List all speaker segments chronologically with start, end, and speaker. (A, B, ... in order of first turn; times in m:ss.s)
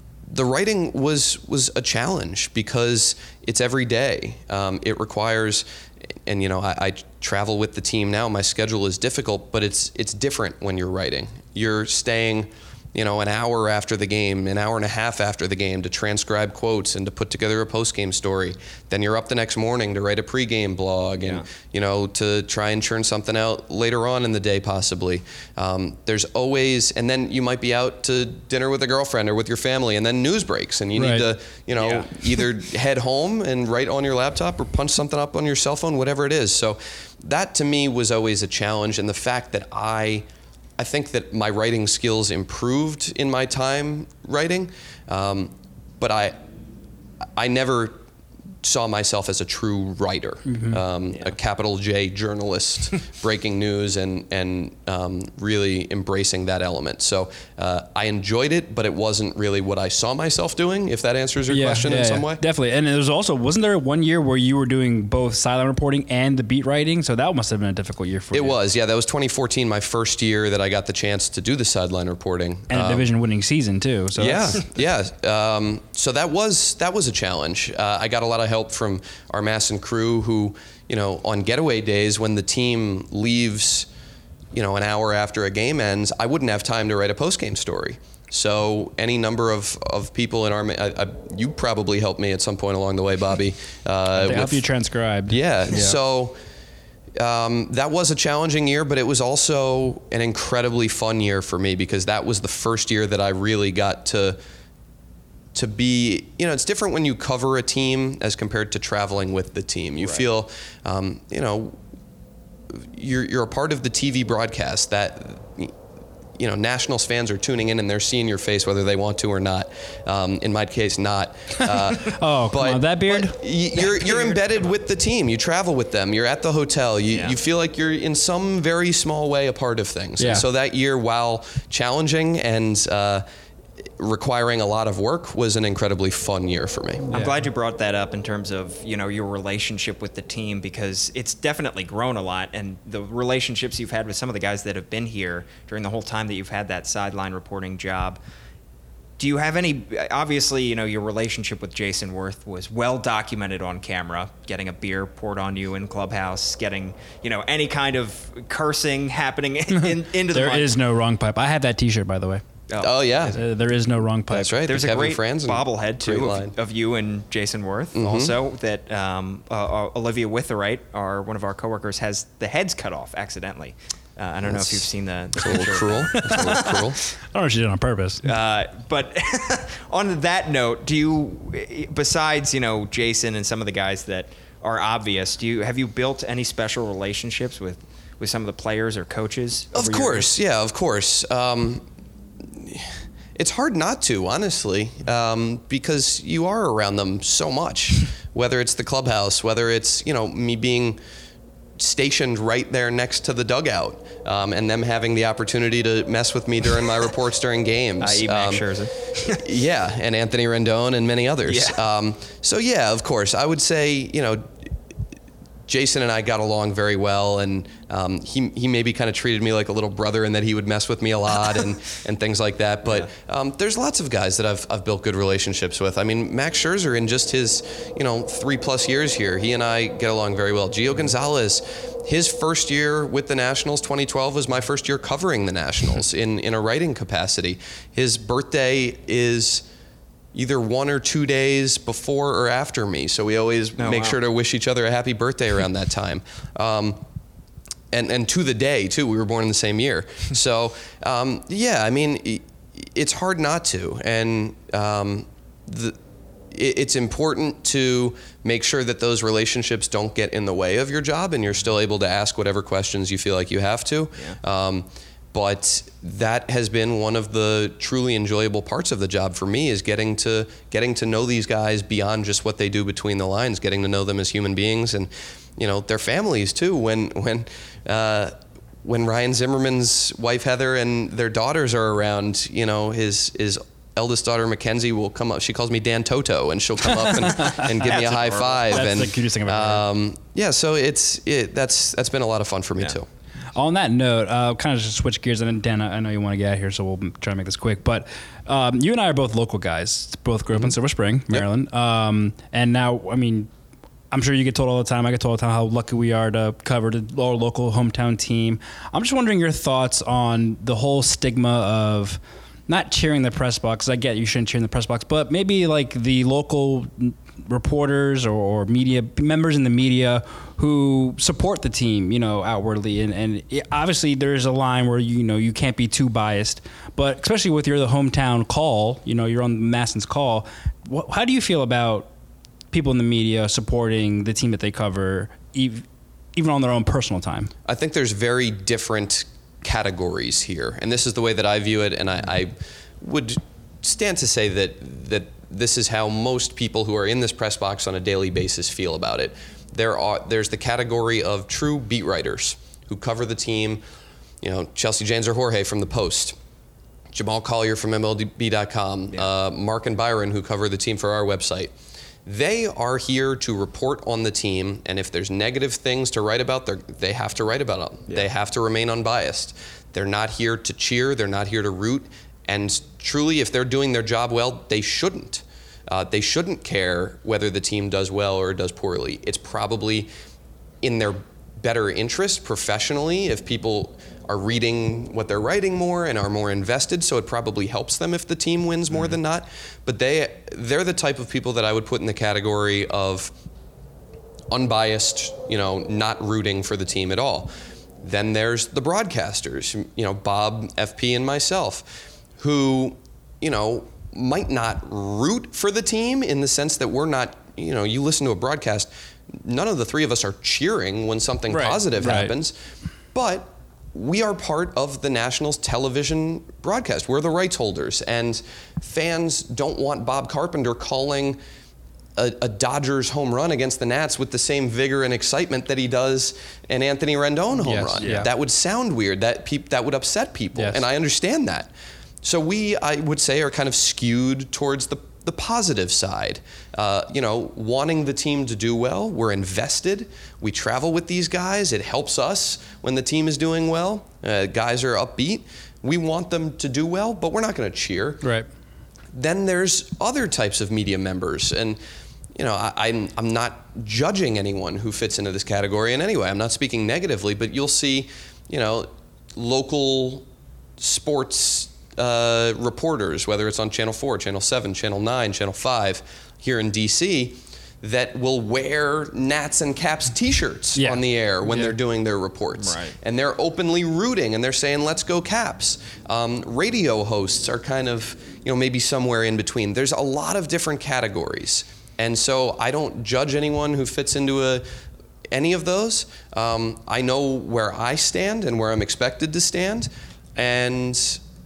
0:00.3-0:05.6 A
0:06.2-0:40.2 A
0:21.2-0:21.4 B
0:31.0-0:31.3 C
0:31.8-0:32.1 B
0:40.8-0:46.4 A
0:47.4-0:48.0 A
0:48.6-1:02.4 A
0:50.4-0:50.8 C
1:01.5-1:08.6 C
1:08.3-1:13.1 A
1:12.7-1:14.6 C
1:14.2-1:23.9 A
1:24.5-1:34.6 A
1:34.1-1:36.0 C
1:35.3-1:36.4 A
1:37.2-1:44.4 A
1:45.5-1:51.8 A
1:52.7-1:55.8 A
1:56.4-2:13.2 A
2:01.6-2:03.4 C
2:03.9-2:04.4 B
2:07.1-2:07.3 B
2:10.2-2:10.4 C
2:14.0-2:17.1 A
2:17.1-2:28.2 B
2:29.2-2:40.7 B
2:39.7-2:42.4 C
2:42.7-2:43.3 B
2:42.8-2:43.4 A
2:43.2-2:44.6 C
2:44.3-2:46.5 A
2:44.7-2:56.8 B
2:47.9-2:48.3 A
2:54.4-2:54.9 A
2:55.4-2:57.0 A
2:56.2-2:56.7 C
2:57.3-2:58.2 C
2:58.2-3:10.3 B
3:09.7-3:11.8 A
3:12.4-3:21.0 A
3:21.8-3:28.7 A
3:28.0-3:29.5 B
3:29.2-3:34.6 A
3:31.4-3:31.8 B
3:35.7-3:59.6 A
4:00.3-4:07.0 A
4:03.8-4:04.2 B
4:07.9-4:16.0 A
4:16.5-4:53.1 A
4:46.9-4:47.8 C
4:47.8-4:48.9 B
4:48.7-4:49.8 C
4:53.5-5:03.5 C
5:04.1-5:32.1 C
5:32.7-5:37.5 C
5:37.6-5:53.8 A
5:54.4-5:56.4 A
5:57.1-6:01.7 A
6:02.2-6:20.1 A
6:20.8-6:33.3 A
6:34.5-6:52.5 A
6:51.5-6:52.3 C
6:53.1-7:01.4 A
7:02.2-7:11.7 A
7:07.6-7:08.3 C
7:10.6-7:10.8 C
7:12.2-7:28.3 A
7:28.2-7:28.5 C
7:29.1-7:31.8 A
7:32.3-7:40.2 A
7:40.8-8:04.6 A
7:50.8-7:51.7 C
7:52.6-7:52.9 B
8:05.3-8:11.2 A